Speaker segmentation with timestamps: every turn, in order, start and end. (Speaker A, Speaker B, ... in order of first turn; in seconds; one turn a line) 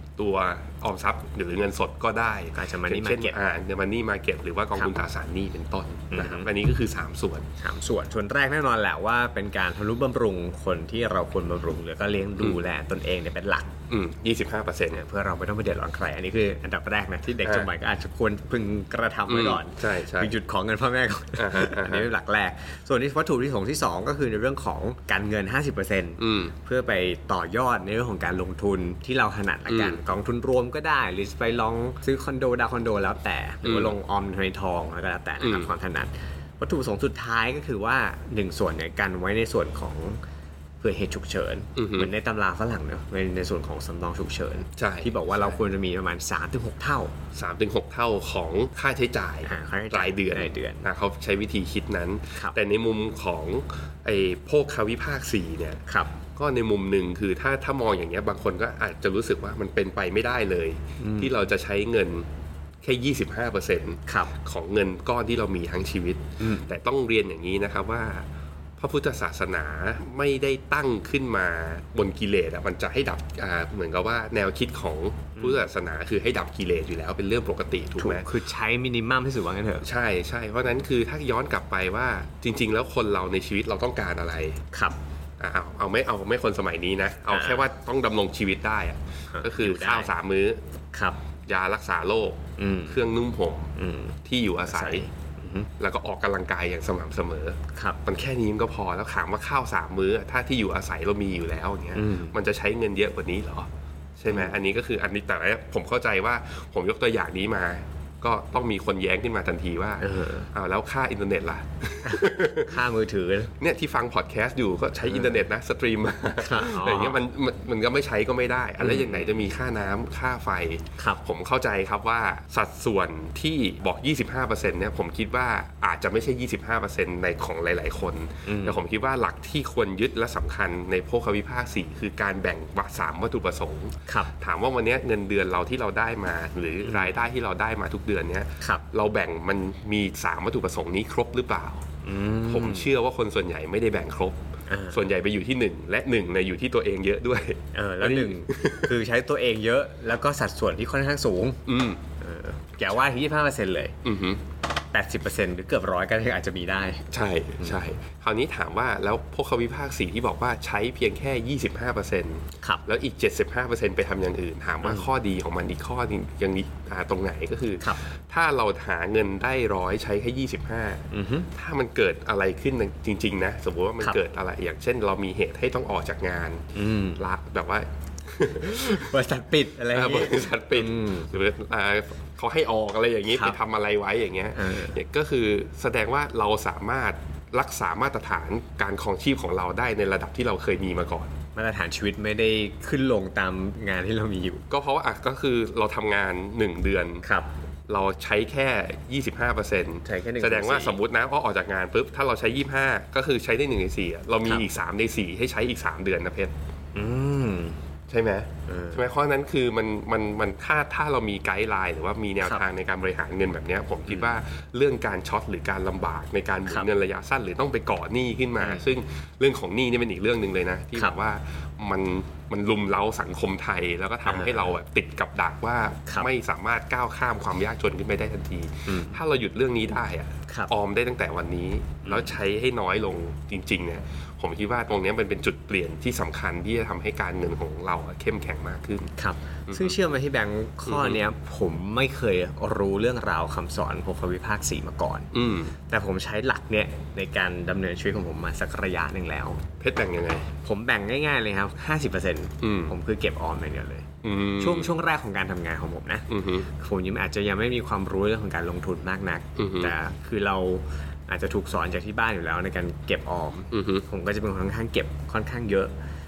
Speaker A: 0.2-7.5
Speaker B: 2.5-3.4
Speaker B: 6.1-6.5
Speaker B: 7.6-13.7
Speaker A: 13.9-15.0
Speaker B: 14.9-40.2
Speaker A: 17.4-17.7
Speaker A: 19.3-20.3
Speaker A: 21.4-22.1
Speaker A: 26.2-26.5
Speaker A: 29.7-30.0
Speaker A: 33.6-34.0
Speaker A: 35.4-35.7
Speaker B: 40.8-47.1
Speaker A: 41.8-42.1
Speaker A: 44.8-45.6
Speaker A: 47.3-55.8
Speaker B: 49.5-50.9
Speaker B: 55.9-56.1
Speaker A: 56.4-62.3
Speaker B: 61.0-61.3
Speaker A: 62.8-68.3
Speaker B: 64.1-64.3
Speaker B: 66.4-66.7
Speaker A: 68.8-78.3
Speaker B: 75.4-75.7
Speaker B: 78.0-79.9
Speaker A: 79.8-84.6
Speaker A: 85.4-90.6
Speaker B: 87.3-87.6
Speaker B: 89.3-90.1
Speaker B: 90.9-91.2
Speaker A: 91.5-93.7
Speaker B: 92.6-93.1
Speaker B: 93.8-95.7
Speaker A: 94.2-95.0
Speaker A: 95.8-112.8
Speaker B: 97.7-98.0
Speaker B: 101.9-102.3
Speaker B: 104.3-104.6
Speaker B: 110.0-110.5
Speaker B: 112.0-113.5
Speaker A: 113.6-141.8
Speaker B: 115.0-115.4
Speaker B: 116.4-117.2
Speaker B: 118.8-119.5
Speaker B: 128.4-128.8
Speaker B: 136.8-137.1
Speaker B: 142.0-142.9
Speaker A: 142.4-144.4
Speaker B: 144.7-145.1
Speaker A: 144.9-148.9
Speaker B: 147.7-151.6
Speaker A: 151.7-152.0
Speaker B: 152.2-154.0
Speaker A: 154.0-154.4
Speaker B: 154.9-157.1
Speaker A: 157.1-176.7
Speaker B: 164.8-165.1
Speaker B: 171.1-171.5
Speaker B: 176.7-177.2
Speaker A: 177.2-179.2
Speaker B: 178.7-181.3
Speaker A: 179.9-191.3
Speaker B: 183.3-183.6
Speaker B: 184.5-185.0
Speaker B: 191.5-194.7
Speaker A: 194.7-197.2
Speaker B: 197.2-197.5
Speaker A: 197.9-206.5
Speaker B: 200.0-201.0
Speaker B: 206.9-207.8
Speaker A: 208.1-239.1
Speaker B: 208.7-209.1
Speaker B: 214.1-214.3
Speaker B: 218.6-218.9
Speaker B: 224.2-224.7
Speaker B: 228.9-229.2
Speaker B: 230.5-230.7
Speaker B: 232.0-232.4
Speaker B: 239.2-245.3
Speaker A: 239.7-240.0
Speaker A: 240.8-241.2
Speaker A: 245.3-245.7
Speaker B: 245.9-249.6
Speaker A: 249.8-250.5
Speaker B: 250.6-265.9
Speaker A: 252.6-252.9
Speaker A: 254.2-254.9
Speaker A: 256.3-256.7
Speaker A: 259.6-259.9
Speaker A: 263.7-264.0